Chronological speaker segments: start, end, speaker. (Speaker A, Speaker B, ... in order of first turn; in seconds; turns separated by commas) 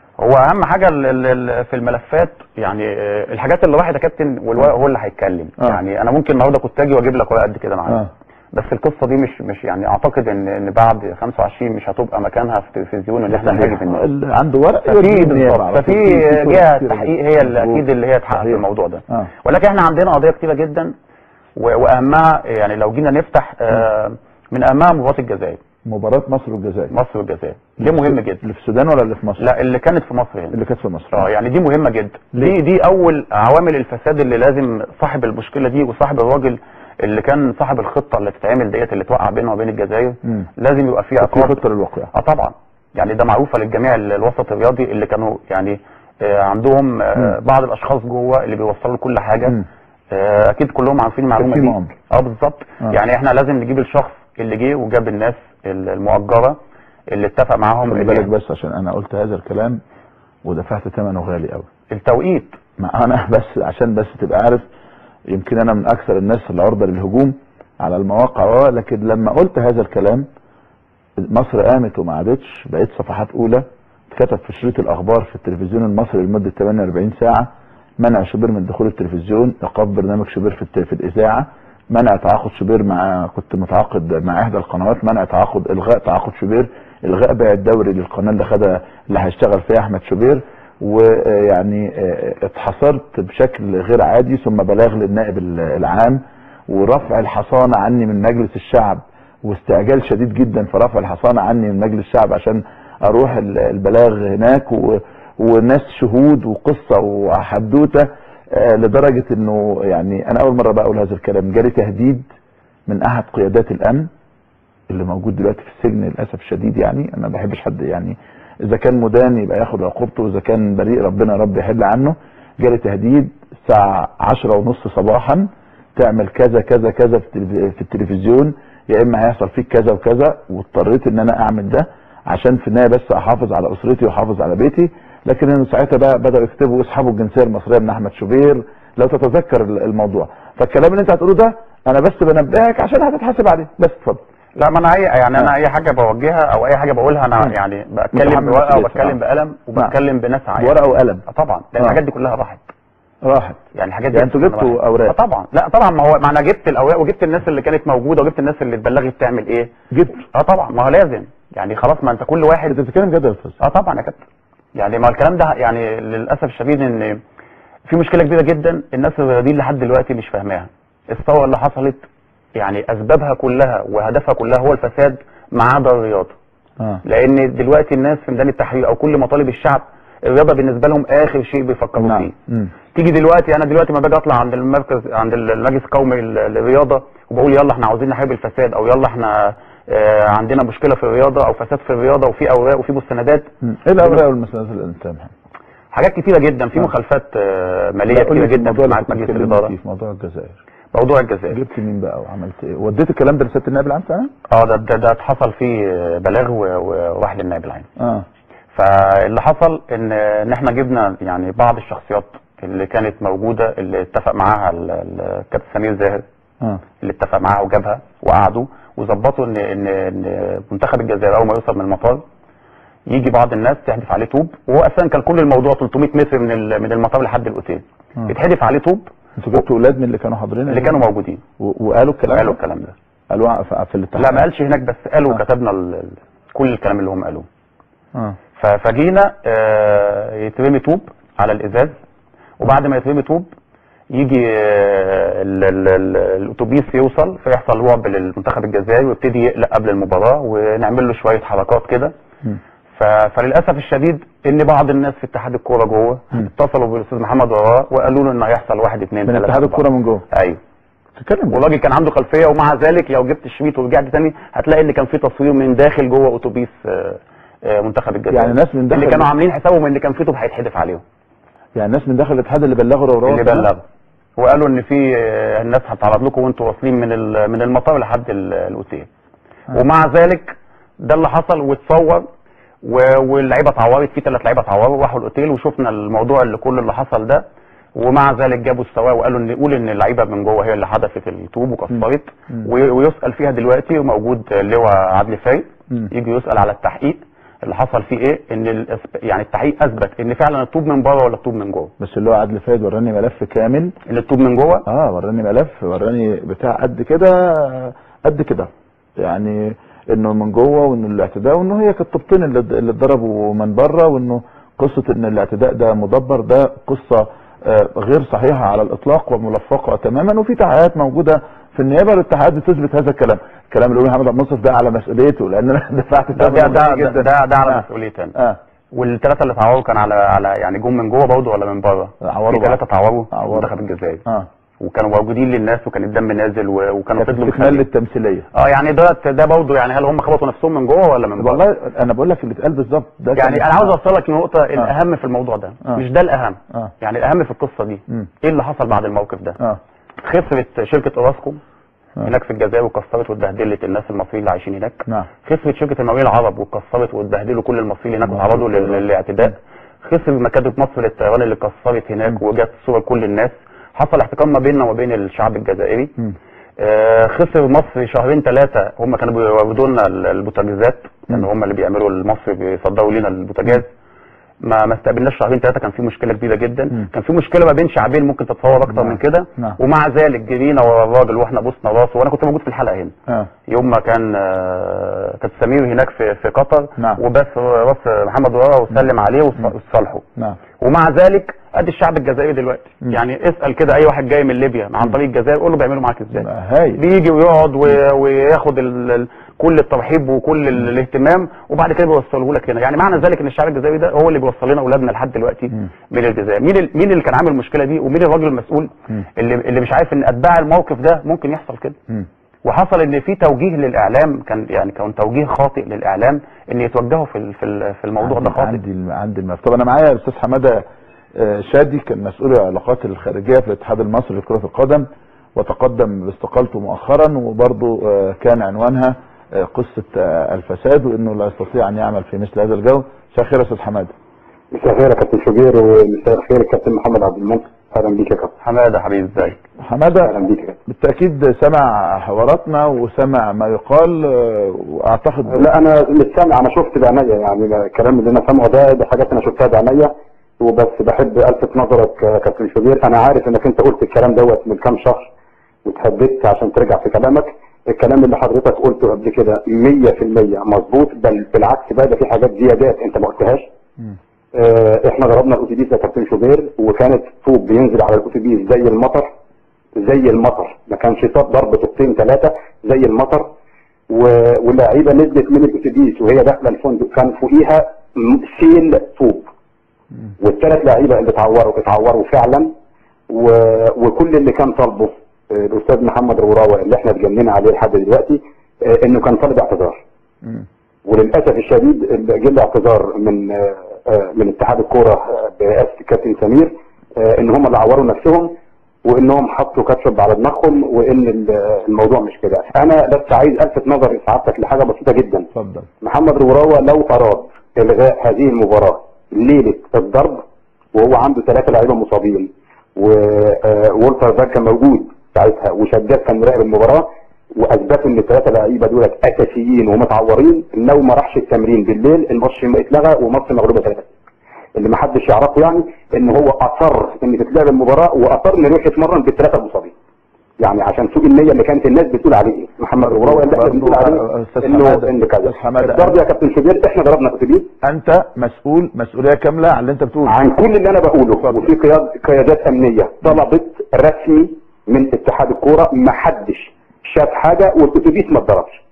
Speaker A: 0.2-14.1, Speaker B: 13.3-19.3, Speaker A: 14.8-20.9, Speaker A: 21.6-25.6, Speaker B: 25.9-26.9, Speaker A: 26.9-28.4, Speaker B: 27.8-29.5, Speaker A: 29.4-30.6, Speaker B: 30.5-31.3, Speaker A: 31.1-41.6, Speaker B: 41.2-42.1, Speaker A: 42.1-56.6, Speaker B: 51.4-51.9, Speaker A: 57.1-58.3, Speaker B: 57.9-59.8, Speaker B: 60.4-61.6, Speaker A: 61.9-62.5, Speaker B: 62.8-64.6, Speaker B: 65.3-70.3, Speaker B: 71.3-112.3, Speaker B: 112.9-114.1, Speaker B: 114.9-144.2, Speaker A: 144.6-152.6, Speaker B: 148.1-149.2, Speaker B: 150.6-151.2, Speaker B: 153.2-153.6, Speaker A: 153.7-162.8, Speaker B: 154.1-155.1, Speaker B: 159.9-160.2, Speaker B: 162.7-163.6, Speaker A: 163.6-164.2, Speaker A: 164.8-167.2, Speaker A: 167.9-172.0, Speaker A: 172.5-176.3, Speaker A: 177.0-182.3, Speaker B: 182.0-182.7, Speaker A: 182.9-193.5, Speaker B: 193.6-195.3, Speaker A: 195.9-199.7, Speaker B: 198.1-200.6, Speaker A: 200.9-201.6, Speaker B: 201.5-204.3, Speaker A: 204.5-207.9, Speaker B: 208.0-208.2, Speaker A: 208.7-216.2, Speaker A: 217.0-222.2, Speaker A: 223.1-229.0, Speaker B: 229.4-231.0, Speaker A: 230.7-231.4, Speaker B: 231.6-232.6, Speaker A: 232.3-232.9, Speaker B: 233.3-234.5, Speaker A: 234.2-237.4, Speaker A: 238.6-241.9, Speaker A: 242.6-243.5, Speaker A: 244.1-252.1, Speaker A: 252.9-260.6, Speaker B: 259.2-260.2, Speaker B: 261.1-261.6, Speaker A: 261.5-271.0, Speaker B: 268.3-269.3, Speaker B: 271.8-273.7, Speaker A: 273.2-273.8, Speaker A: 274.4-279.1, Speaker A: 279.7-282.2, Speaker A: 282.8-301.9, Speaker B: 302.0-303.9, Speaker A: 304.1-304.8, Speaker B: 304.9-327.8, Speaker A: 326.4-328.3, Speaker A: 328.9-334.2, Speaker B: 332.2-332.8, Speaker B: 333.3-333.7, Speaker A: 334.8-337.8, Speaker B: 337.2-338.5, Speaker A: 338.5-341.6, Speaker B: 341.4-343.9, Speaker A: 343.3-349.6, Speaker A: 350.2-351.6, Speaker A: 352.2-366.1, Speaker B: 358.3-358.8, Speaker A: 366.8-373.9, Speaker A: 374.6-383.1, Speaker B: 378.9-379.8, Speaker A: 383.7-390.2, Speaker A: 390.8-412.0, Speaker B: 396.4-397.0, Speaker A: 412.6-418.8, Speaker B: 418.2-420.8, Speaker B: 421.4-434.1, Speaker C: 434.7-438.5, Speaker A: 438.6-439.6, Speaker B: 439.8-440.3, Speaker C: 440.2-440.8, Speaker B: 440.9-445.7, Speaker C: 445.5-455.3, Speaker C: 455.8-463.6, Speaker C: 464.5-469.3, Speaker C: 469.9-473.5, Speaker C: 474.1-479.5, Speaker C: 480.4-482.7, Speaker C: 483.3-490.0, Speaker C: 491.1-505.5, Speaker B: 505.5-505.9, Speaker C: 506.0-510.4, Speaker C: 510.9-524.1, Speaker C: 524.8-529.9, Speaker C: 530.6-537.7, Speaker B: 533.0-536.2, Speaker B: 537.8-540.4, Speaker C: 540.3-548.8, Speaker B: 541.4-541.7